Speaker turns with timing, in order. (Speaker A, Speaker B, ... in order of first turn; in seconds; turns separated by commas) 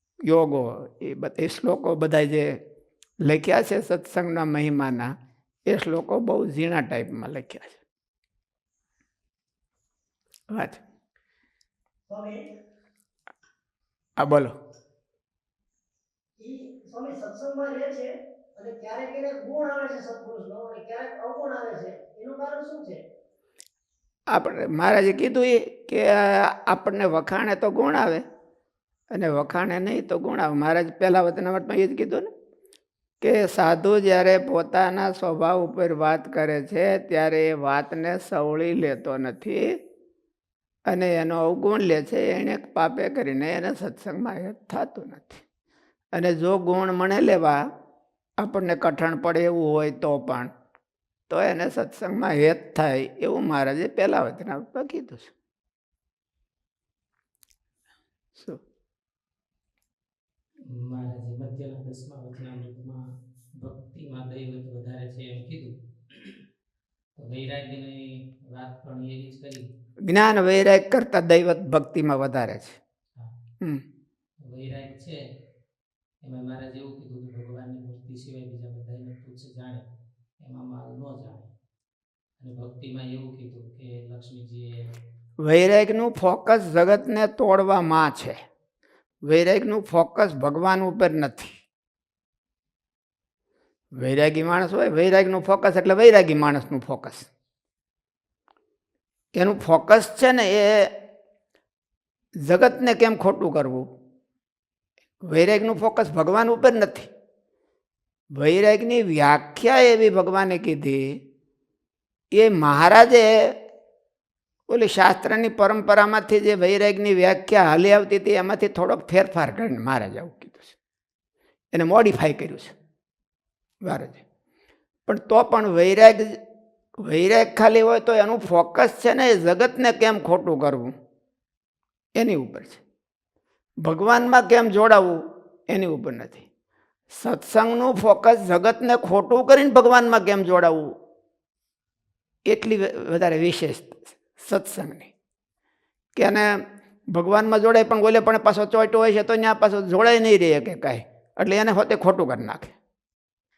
Speaker A: 0.3-2.5, Speaker A: 3.2-5.0, Speaker A: 5.7-7.8, Speaker A: 10.5-10.8, Speaker B: 12.1-12.5, Speaker A: 14.2-14.5, Speaker B: 16.4-23.0, Speaker A: 24.3-28.2, Speaker A: 29.1-32.3, Speaker A: 33.2-39.6, Speaker A: 40.9-45.4, Speaker A: 46.1-47.6, Speaker A: 48.4-50.5, Speaker A: 51.3-55.3, Speaker C: 60.8-63.0, Speaker C: 63.6-66.4, Speaker C: 67.2-69.7, Speaker A: 70.1-72.8, Speaker C: 74.5-75.2, Speaker C: 76.2-79.8, Speaker C: 80.4-81.5, Speaker C: 82.4-84.7, Speaker A: 85.4-88.3, Speaker A: 89.2-91.5, Speaker A: 94.0-97.3, Speaker A: 99.4-100.9, Speaker A: 102.5-103.8, Speaker A: 105.3-107.1, Speaker A: 108.4-111.0, Speaker A: 112.4-113.3, Speaker A: 114.7-120.8, Speaker A: 121.7-122.7, Speaker A: 123.8-124.2, Speaker A: 125.1-126.4, Speaker A: 127.0-130.9, Speaker A: 132.2-132.8, Speaker A: 133.8-135.2, Speaker A: 135.7-136.4, Speaker A: 137.1-140.9, Speaker A: 142.5-145.1, Speaker A: 146.2-152.7